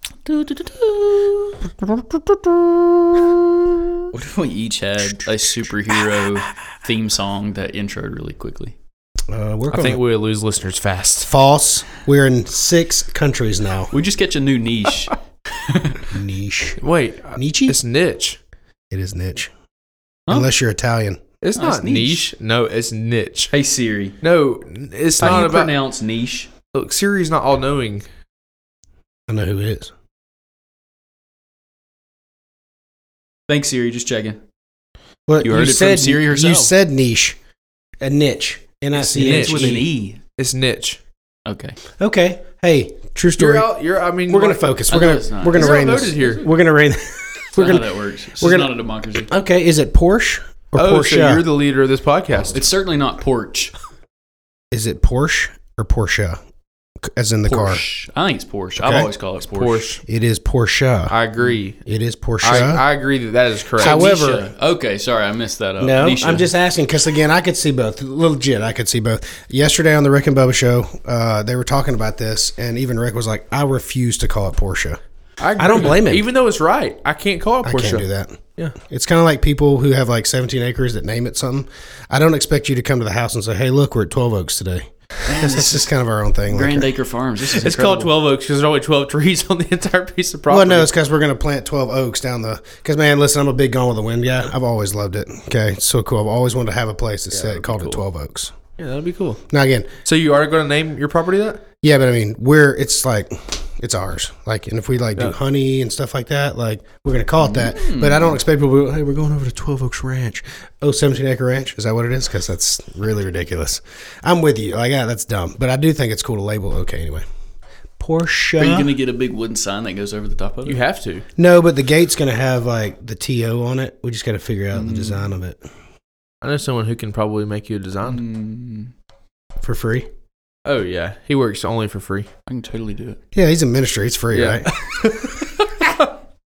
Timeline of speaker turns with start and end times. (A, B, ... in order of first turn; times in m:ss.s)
0:00.3-0:01.5 A
0:02.0-0:03.3 B
0:04.1-0:08.7 A
0:09.3-0:10.0 C
0:09.7-0:11.3 B
0:11.2-0:13.9 C
0:13.9-0:16.0 A
0:16.1-0:16.8 C
0:16.8-0:18.4 B
0:17.4-0:17.8 C
0:18.9-0:19.5 C
0:20.3-0:21.2 C
0:21.4-0:23.5 B
0:21.6-0:22.2 A
0:23.5-0:24.1 A
0:24.2-0:25.7 B
0:25.2-0:26.5 A
0:26.7-0:28.0 B
0:29.3-0:29.9 C
0:33.5-0:34.4 A
0:35.3-0:37.4 C
0:35.4-0:36.7 A
0:38.0-0:39.9 C
0:39.0-0:40.2 A
0:39.1-0:39.8 B
0:40.4-0:41.0 B
0:41.4-0:41.8 A
0:42.0-0:43.7 C
0:43.4-0:44.6 B
0:44.3-0:51.4 C
0:44.9-0:46.3 A
0:45.5-0:46.5 B
0:47.5-0:49.3 A
0:50.8-0:52.6 B
0:52.5-0:53.7 A
0:54.7-0:56.4 C
0:57.0-0:57.8 C
0:57.5-0:59.9 A
0:58.8-0:59.1 C
0:59.5-1:00.0 B
1:00.0-1:01.2 C
1:01.1-1:01.8 B
1:01.8-1:02.8 C
1:02.4-1:04.1 B
1:03.8-1:04.5 C
1:03.8-1:06.5 A
1:05.8-1:15.0 C
1:15.4-1:18.0 B
1:15.6-1:16.3 C
1:17.6-1:26.9 C
1:25.2-1:25.9 A
1:26.5-1:28.1 A
1:27.6-1:30.9 B
1:30.5-1:38.5 C
1:37.3-1:38.0 B
1:38.8-1:39.4 B
1:39.5-1:40.0 C
1:40.0-1:41.6 B
1:41.8-1:57.2 C
1:47.4-1:48.4 A
1:58.0-1:58.9 C
1:58.6-2:00.8 A
2:00.6-2:01.2 B
2:01.4-2:05.7 C
2:04.7-2:05.3 A
2:06.4-2:08.2 B
2:08.0-2:08.9 A
2:09.6-2:10.1 C
2:10.6-2:12.3 B
2:12.5-2:13.2 A
2:13.3-2:14.7 C
2:14.3-2:16.1 B